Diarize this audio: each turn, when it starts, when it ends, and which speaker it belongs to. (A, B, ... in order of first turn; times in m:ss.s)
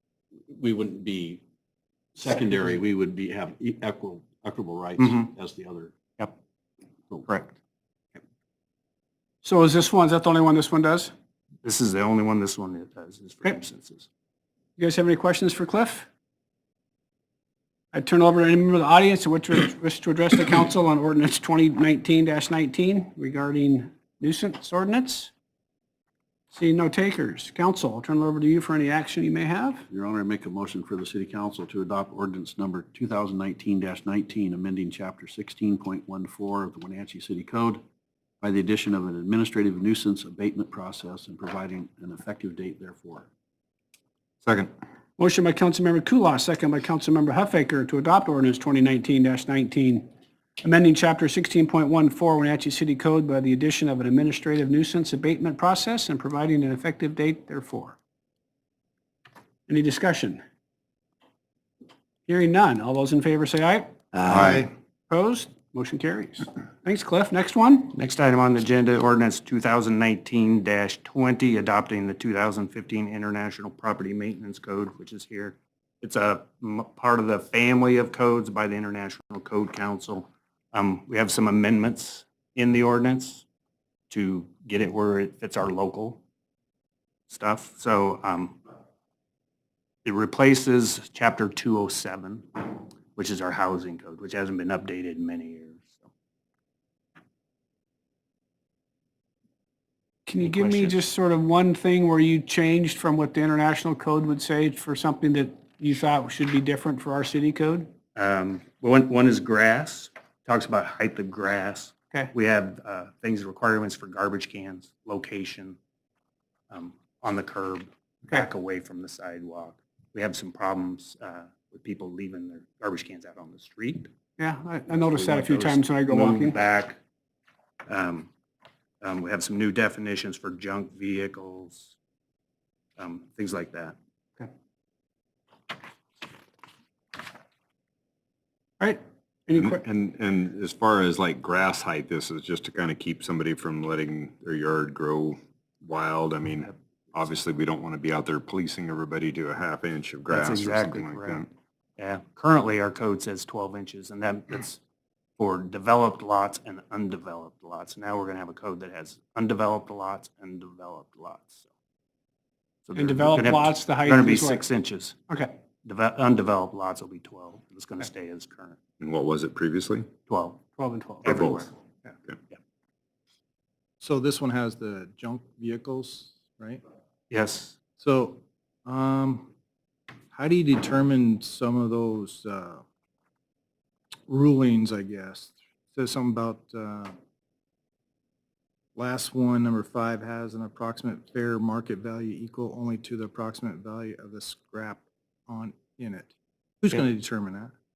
0:00.5-0:01.4 A
0:02.2-0:05.9 A
0:05.0-0:05.3 B
0:09.4-0:11.1 C
0:11.6-0:14.1 B
0:14.8-0:16.1 C
0:17.9-0:25.3 C
0:26.5-0:29.8 C
0:29.9-0:37.8 A
0:38.4-0:43.3 A
0:45.2-0:50.1 C
0:50.6-0:58.0 C
0:59.7-1:00.4 C
1:02.3-1:04.0 C
1:04.1-1:04.5 A
1:04.3-1:04.7 D
1:05.1-1:07.9 C
1:07.9-1:23.4 B
1:24.1-1:26.2 B
1:27.3-1:28.6 B
1:30.0-1:36.0 B
1:40.3-1:47.9 C
1:40.4-1:40.9 B
1:48.2-1:55.8 B
1:56.7-2:04.1 B
2:04.4-2:06.6 C
2:04.9-2:07.0 B
2:07.9-2:08.3 B
2:09.0-2:11.9 B
2:13.0-2:14.0 B
2:18.8-2:19.7 C
2:19.5-2:31.5 E
2:30.3-2:31.5 B
2:32.0-2:34.8 B
2:35.4-2:41.6 B
2:42.9-2:45.2 B
2:43.0-2:44.6 C
2:45.8-2:48.8 B
2:49.0-2:50.1 E
2:50.3-2:50.6 B
2:50.8-2:51.3 C
2:51.2-2:51.7 B
2:51.3-2:51.7 E
2:54.0-2:56.8 D
2:57.3-2:57.8 B
2:58.0-2:59.5 D
3:00.3-3:02.8 D
3:04.3-3:07.2 D
3:09.0-3:17.7 D